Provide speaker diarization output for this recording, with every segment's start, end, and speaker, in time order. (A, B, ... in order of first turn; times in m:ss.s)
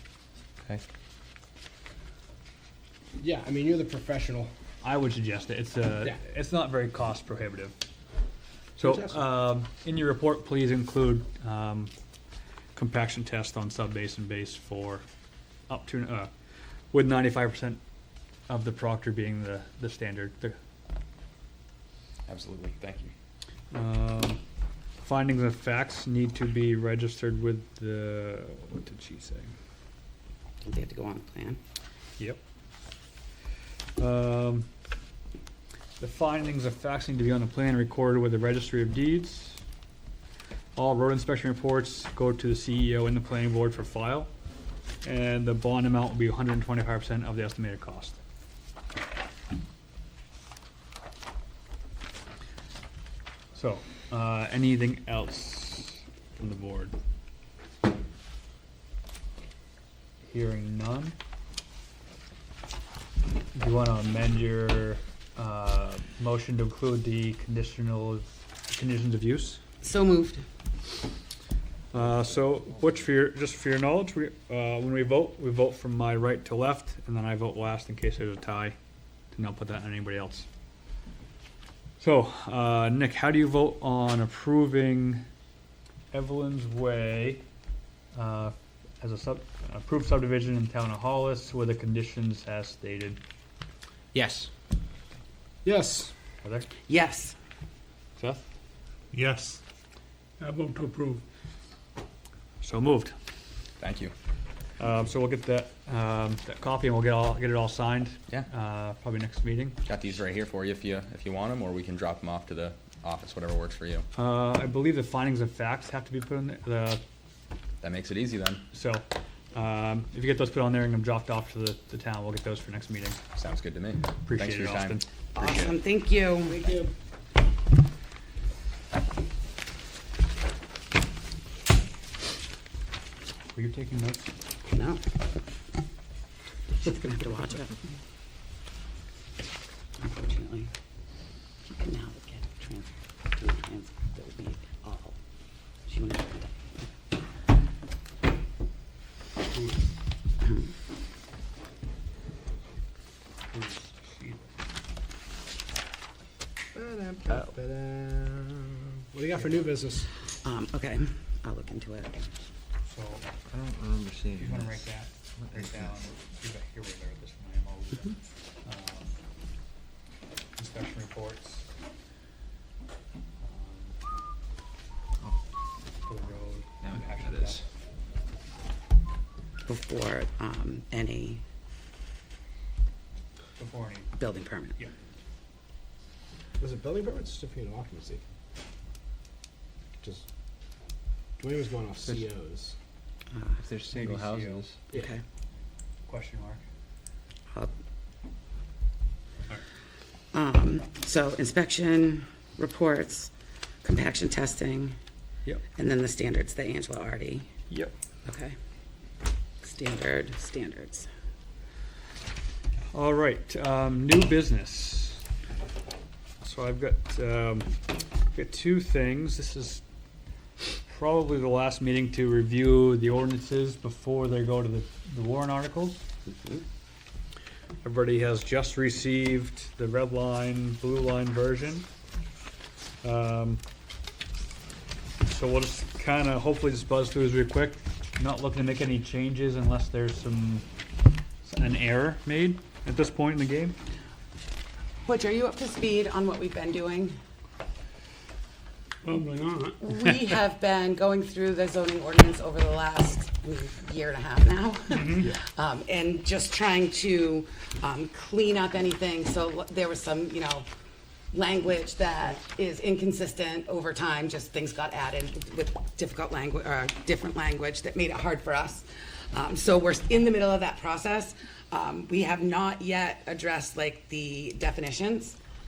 0:03.2-0:04.5 A
0:04.8-0:07.7 B
0:08.8-0:09.2 A
0:08.8-0:11.9 B
0:12.7-0:15.0 B
0:15.7-0:16.3 B
0:16.9-0:17.8 B
0:18.5-0:20.6 B
0:22.2-0:23.1 C
0:23.7-0:24.4 B
0:25.0-0:29.5 B
0:30.6-0:31.6 D
0:34.0-0:34.7 B
0:36.0-0:39.6 B
0:40.8-0:44.3 B
0:45.0-0:48.2 B
0:53.5-0:56.9 B
1:00.3-1:01.2 B
1:03.5-1:09.6 B
1:09.8-1:10.4 D
1:11.9-1:18.8 B
1:19.3-1:20.5 B
1:22.0-1:25.2 B
1:26.1-1:27.4 B
1:28.1-1:33.2 B
1:35.6-1:36.1 A
1:36.4-1:36.7 B
1:36.9-1:37.3 D
1:38.2-1:38.5 B
1:39.1-1:39.6 E
1:40.4-1:41.2 E
1:42.6-1:43.1 B
1:43.8-1:44.1 C
1:44.8-1:49.8 B
1:49.8-1:54.1 C
1:54.1-1:57.0 B
1:57.8-1:58.6 C
1:58.7-2:03.2 B
2:03.4-2:05.8 C
2:04.2-2:05.0 B
2:05.4-2:06.6 D
2:06.4-2:06.9 A
2:13.5-2:14.3 B
2:14.7-2:15.0 D
2:16.8-2:17.8 D
2:20.0-2:20.7 D
2:21.7-2:25.2 D
2:25.9-2:26.9 D
2:29.5-2:29.8 E
2:33.5-2:34.4 E
2:36.7-2:40.1 A
2:40.4-2:42.2 D
2:42.8-2:43.3 B
2:43.5-2:44.8 F
2:44.3-2:49.2 B
2:50.6-2:51.7 B
2:53.4-2:54.0 B
2:56.0-2:57.6 B
2:59.7-3:01.4 D
3:03.6-3:04.1 B
3:04.2-3:04.8 D
3:06.6-3:08.2 A
3:11.4-3:12.7 A
3:13.3-3:13.6 D
3:13.6-3:14.8 F
3:13.9-3:14.7 B
3:14.9-3:15.2 D
3:16.1-3:16.6 B
3:20.3-3:23.3 D
3:23.8-3:25.0 D
3:25.8-3:27.5 D
3:28.2-3:28.5 D
3:29.6-3:31.1 D
3:32.9-3:35.2 B
3:36.4-3:37.8 B
3:38.3-3:39.8 B
3:40.9-3:46.0 B
3:47.8-3:51.9 B
3:53.0-3:53.6 B
3:55.2-4:00.6 B
4:01.4-4:03.8 B
4:05.0-4:07.1 D
4:09.0-4:09.8 E
4:09.8-4:20.6 D
4:15.0-4:15.3 B
4:21.3-4:35.4 D